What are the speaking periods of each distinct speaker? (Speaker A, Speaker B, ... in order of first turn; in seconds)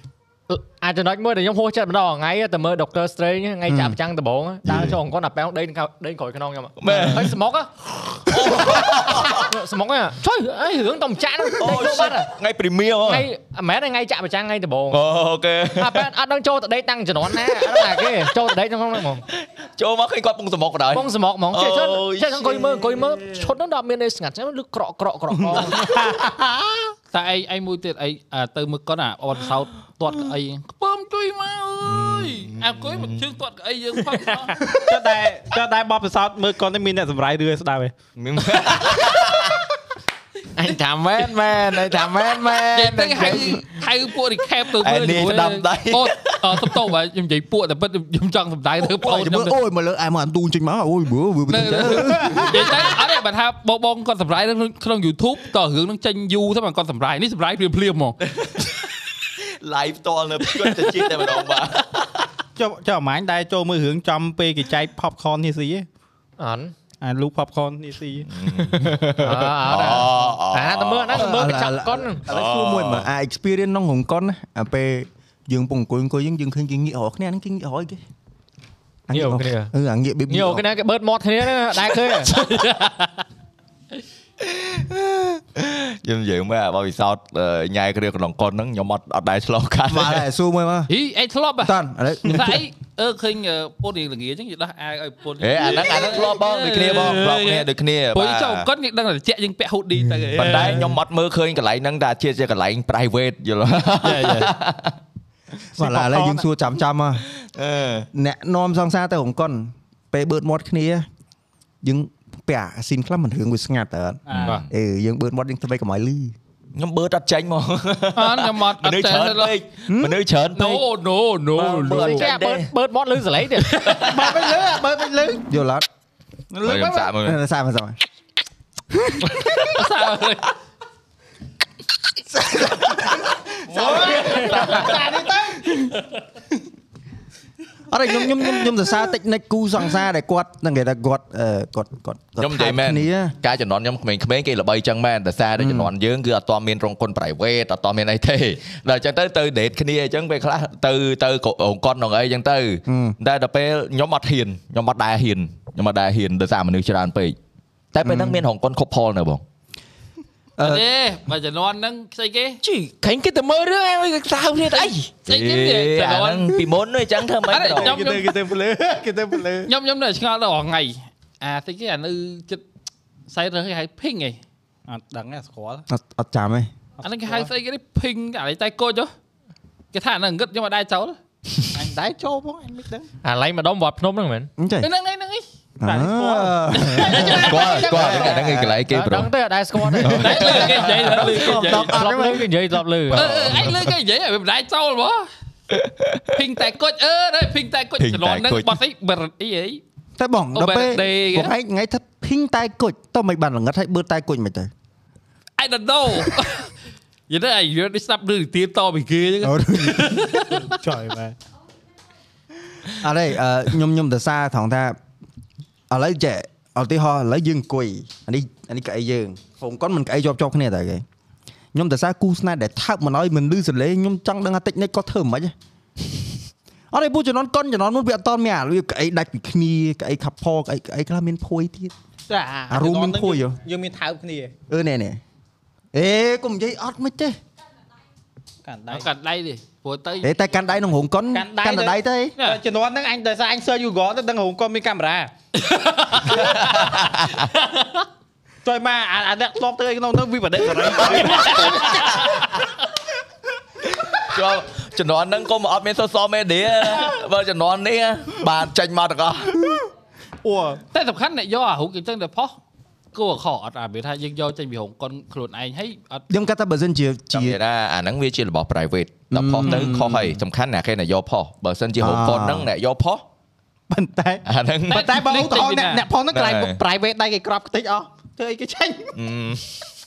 Speaker A: 0.5-12.3, 13.0-15.0, 15.8-19.2, 20.9-25.9, 66.4-66.7, 69.2-72.2, 79.1-79.7, 80.3-82.4, 121.7-123.8, 183.2-184.5, 188.1-190.6, 191.8-193.4
Speaker B: 3.7-4.0, 48.8-52.9, 71.1-78.0, 79.1-80.7, 89.9-90.9, 91.6-92.6, 105.8-107.2, 108.1-111.1, 111.8-116.3, 119.9-120.2, 125.4-125.8, 127.2-128.0, 128.9-129.7, 132.3-133.1, 137.9-143.3, 145.6-145.9, 152.9-153.2, 158.0-158.4, 160.6-160.8, 175.9-176.7, 184.6-184.9, 185.8-188.8, 190.1-192.5, 193.2-193.8, 200.2-204.7, 209.4-210.2, 213.0-215.0, 215.9-221.0, 221.7-225.5, 226.9-231.9, 232.7-233.6, 234.7-235.2, 235.9-237.4, 240.2-242.3, 266.3-267.6, 269.3-270.4, 272.0-272.7
Speaker C: 4.7-5.0, 6.8-7.4, 8.2-9.5, 11.6-13.3, 14.9-16.1, 17.3-18.3, 19.3-23.0, 31.8-33.3, 38.2-39.6, 44.8-46.9, 58.2-62.3, 68.3-71.5, 72.3-73.1, 84.4-90.2, 95.4-98.7, 100.3-105.0, 107.4-108.1, 114.3-114.7, 116.8-120.8, 121.6-122.7, 123.8-124.3, 126.6-127.4, 133.7-135.2, 142.4-157.4, 157.9-159.4, 164.7-168.0, 187.4-189.3, 190.0-191.2, 193.2-193.8, 195.7-196.4, 198.0-198.8, 246.3-247.5, 254.1-259.7, 267.3-273.2, 274.4-275.1, 276.3-276.8, 279.1-279.6
Speaker D: 25.4-26.9, 34.6-38.0, 62.6-65.9, 67.0-68.3, 105.8-106.5, 114.3-114.6, 124.0-125.5, 126.5-127.2, 133.7-136.0, 167.5-169.7, 174.9-175.8, 177.0-177.5, 181.7-183.1, 185.8-188.4, 190.4-191.8, 210.6-211.4, 232.3-234.5, 238.7-239.1, 241.3-245.3, 248.7-252.5, 260.4-260.8, 273.9-279.2
Speaker E: 27.1-34.6, 42.7-49.5, 51.5-58.2, 82.2-83.2, 90.9-100.9, 104.0-104.5, 118.2-119.6, 120.5-122.3, 123.7-124.0, 129.6-130.5, 160.6-162.6, 165.3-166.7, 167.5-168.4, 169.7-172.6, 173.3-174.4, 177.0-179.1, 179.9-181.2, 184.8-185.4, 186.7-187.9, 190.2-192.0, 193.1-195.3, 196.3-199.8, 200.5-201.5, 205.6-206.7, 207.3-210.6, 238.9-240.4, 245.6-246.7, 251.2-251.7, 260.9-262.6, 263.1-266.3, 274.9-276.1
Speaker F: 40.5-43.6, 162.6-165.1